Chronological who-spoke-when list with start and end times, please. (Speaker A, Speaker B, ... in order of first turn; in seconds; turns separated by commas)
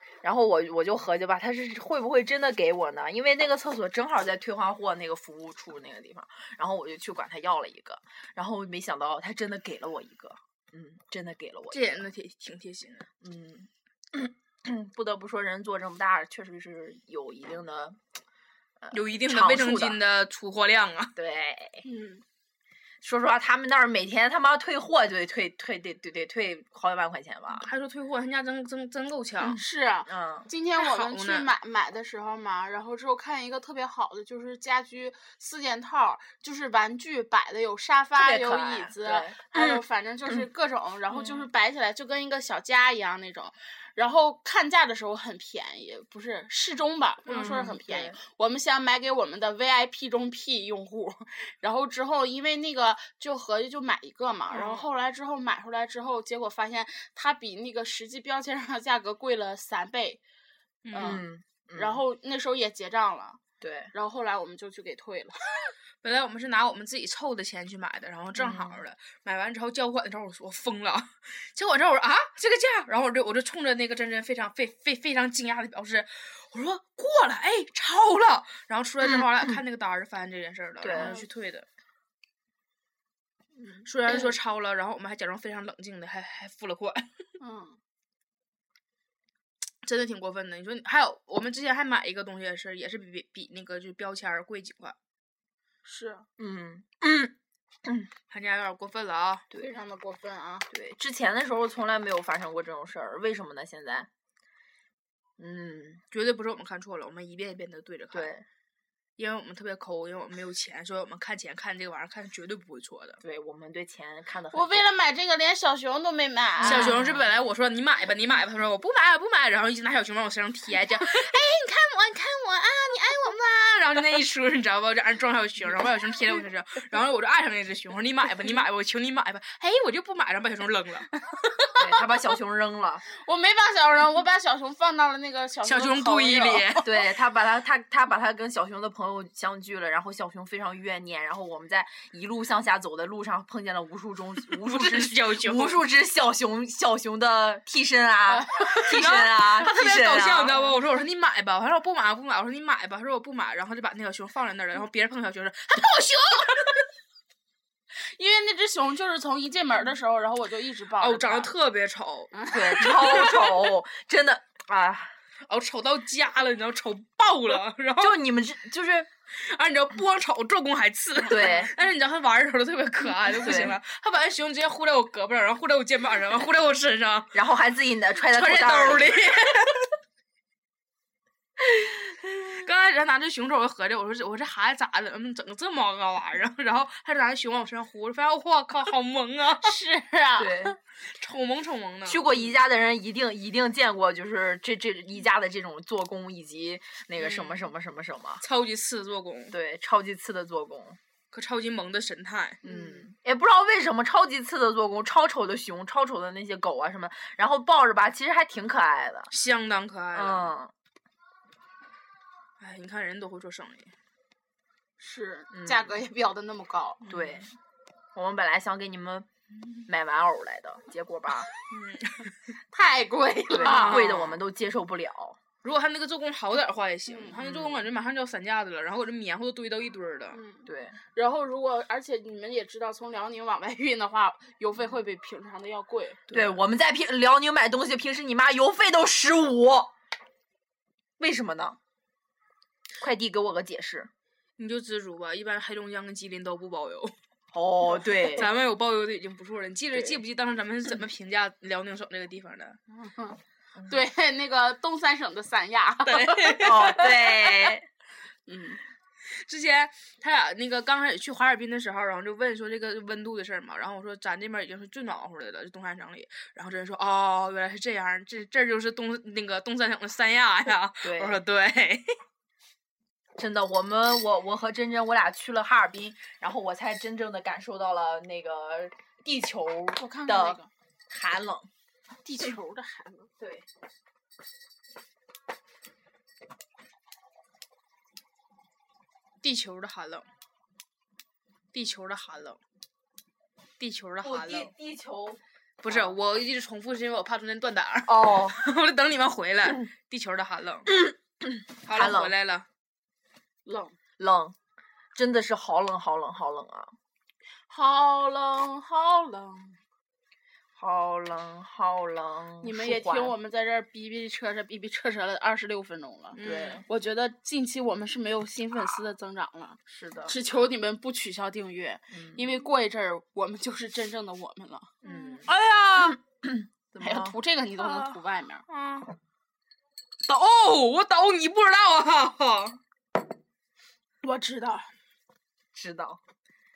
Speaker A: 0.2-12.1, Speaker B: 11.7-13.1, Speaker A: 13.2-18.0, Speaker A: 18.8-20.0, Speaker B: 18.9-21.1, Speaker A: 21.2-21.9, Speaker C: 21.8-22.2, Speaker A: 23.0-27.7, Speaker B: 27.5-29.6, Speaker A: 29.4-30.5, Speaker C: 29.6-60.2, Speaker B: 30.8-31.5, Speaker A: 38.1-39.8, Speaker B: 41.1-41.5, Speaker B: 47.3-47.7, Speaker A: 47.3-48.2, Speaker B: 54.5-54.9, Speaker B: 60.9-61.2, Speaker C: 60.9-63.4, Speaker A: 61.0-62.0, Speaker A: 63.6-63.9, Speaker C: 63.9-65.7, Speaker B: 66.0-81.7, Speaker A: 68.4-68.8, Speaker A: 79.0-79.6, Speaker A: 80.8-81.2, Speaker C: 80.9-81.3, Speaker A: 83.6-83.9, Speaker B: 83.8-87.3, Speaker C: 87.4-87.8, Speaker B: 89.8-95.0, Speaker C: 95.8-96.3, Speaker A: 96.4-98.1, Speaker B: 98.3-99.5, Speaker C: 99.5-100.7, Speaker A: 100.7-104.1, Speaker A: 105.4-106.0, Speaker B: 106.1-108.3, Speaker A: 108.1-108.5, Speaker B: 109.2-113.2, Speaker A: 113.2-114.9, Speaker C: 114.5-116.9, Speaker A: 116.6-117.3, Speaker B: 116.6-131.7, Speaker A: 131.8-133.0, Speaker C: 133.2-136.8, Speaker B: 135.6-136.9, Speaker A: 136.8-150.6, Speaker B: 144.5-145.8, Speaker B: 148.5-156.9, Speaker C: 158.1-161.5, Speaker B: 161.0-163.6, Speaker C: 162.3-163.1, Speaker A: 162.5-165.1, Speaker B: 165.5-168.2, Speaker A: 168.0-169.1, Speaker B: 169.3-177.4, Speaker A: 171.2-171.7, Speaker A: 173.3-173.8, Speaker A: 177.3-179.2, Speaker B: 178.3-179.9, Speaker B: 182.4-189.7, Speaker C: 189.6-190.8, Speaker A: 190.4-190.8, Speaker B: 191.1-192.3, Speaker A: 192.1-198.4, Speaker B: 197.2-197.6, Speaker B: 198.4-199.6, Speaker A: 199.5-201.0, Speaker B: 201.3-202.6, Speaker A: 202.6-209.3, Speaker C: 202.7-203.0, Speaker B: 209.3-210.5, Speaker A: 210.1-210.7, Speaker B: 212.6-213.9, Speaker C: 215.0-217.0, Speaker A: 215.5-215.9, Speaker B: 217.1-217.4, Speaker A: 217.1-217.5, Speaker A: 218.2-219.3, Speaker A: 219.9-221.5, Speaker B: 221.7-222.3, Speaker C: 222.7-224.1, Speaker A: 223.5-225.4, Speaker B: 223.6-224.4, Speaker B: 225.6-230.4, Speaker C: 227.1-227.4, Speaker A: 227.4-227.9, Speaker C: 230.3-236.2, Speaker A: 230.7-231.0, Speaker B: 236.3-236.6, Speaker A: 236.3-239.9, Speaker A: 241.2-241.8, Speaker A: 243.0-244.1, Speaker B: 244.6-247.1, Speaker A: 247.5-248.5, Speaker B: 248.3-252.8, Speaker A: 249.9-250.2, Speaker C: 252.9-257.5, Speaker B: 256.0-257.3, Speaker A: 256.6-257.9, Speaker C: 258.5-258.8, Speaker B: 259.3-272.1, Speaker A: 271.0-271.4, Speaker A: 273.4-281.7, Speaker C: 280.0-280.7, Speaker C: 282.2-283.3, Speaker A: 283.4-283.6, Speaker B: 289.4-290.3, Speaker B: 291.7-292.6, Speaker B: 293.8-294.7, Speaker A: 294.2-296.1, Speaker B: 295.8-300.9, Speaker A: 298.1-298.6, Speaker A: 300.9-302.3, Speaker B: 301.9-302.7, Speaker C: 303.7-304.0, Speaker A: 304.2-304.6, Speaker A: 305.1-306.9, Speaker C: 307.7-309.8, Speaker A: 310.8-313.4, Speaker C: 312.6-324.9, Speaker B: 316.3-316.8, Speaker A: 316.4-316.9, Speaker A: 319.9-320.4, Speaker A: 322.1-322.4, Speaker A: 325.0-327.4, Speaker B: 325.1-326.1, Speaker C: 327.0-328.6, Speaker B: 328.7-329.1, Speaker B: 330.3-332.8, Speaker C: 334.2-334.9, Speaker A: 335.7-336.2